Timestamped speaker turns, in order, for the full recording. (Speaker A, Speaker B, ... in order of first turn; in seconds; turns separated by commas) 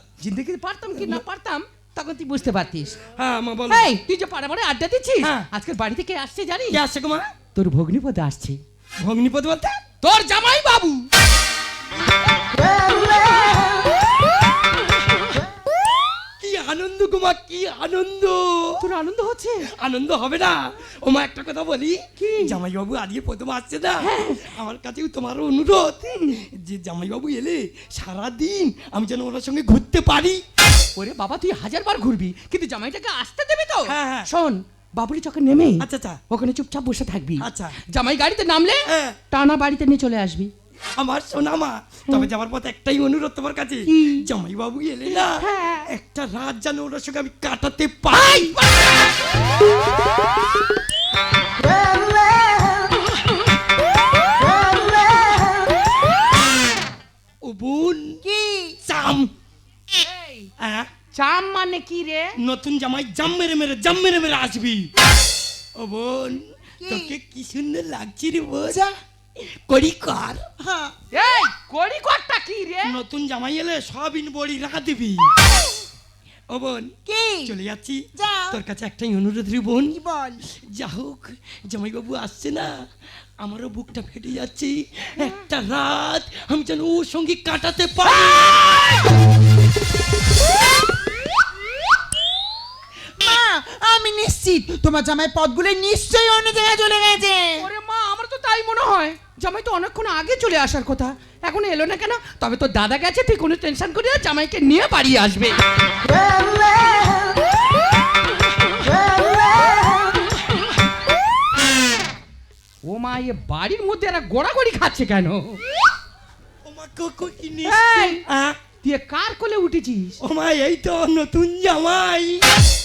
Speaker A: 0.2-3.0, Speaker B: 3.2-3.9, Speaker A: 3.7-6.8, Speaker B: 5.2-5.5, Speaker B: 6.7-7.3, Speaker A: 7.5-8.6, Speaker B: 9.0-9.8, Speaker A: 10.0-11.1, Speaker B: 16.4-18.8, Speaker A: 18.8-19.7, Speaker B: 19.8-30.4, Speaker A: 22.2-22.6, Speaker A: 24.0-24.4, Speaker A: 30.9-40.5, Speaker B: 33.9-34.3, Speaker B: 35.8-36.2, Speaker B: 37.4-37.7, Speaker B: 38.9-39.1, Speaker B: 41.0-48.6, Speaker A: 43.9-44.2, Speaker A: 45.4-45.8, Speaker B: 57.4-58.2, Speaker C: 58.2-58.8, Speaker B: 58.9-59.3, Speaker A: 59.9-60.5, Speaker B: 60.6-60.9, Speaker A: 61.1-62.3, Speaker B: 62.4-64.9, Speaker B: 65.8-68.8, Speaker C: 66.8-67.1, Speaker C: 68.7-68.9, Speaker B: 69.4-70.4, Speaker C: 70.6-70.9, Speaker A: 71.1-73.0, Speaker B: 72.8-75.3, Speaker B: 76.5-76.9, Speaker C: 77.0-77.5, Speaker B: 77.5-80.0, Speaker C: 78.1-78.6, Speaker C: 79.9-80.4, Speaker B: 80.6-82.7, Speaker B: 83.4-89.0, Speaker A: 88.1-88.6, Speaker C: 93.2-97.7, Speaker A: 97.6-105.6, Speaker A: 112.8-115.6, Speaker B: 116.6-118.6, Speaker A: 117.6-118.2, Speaker A: 118.8-120.2, Speaker B: 120.2-122.4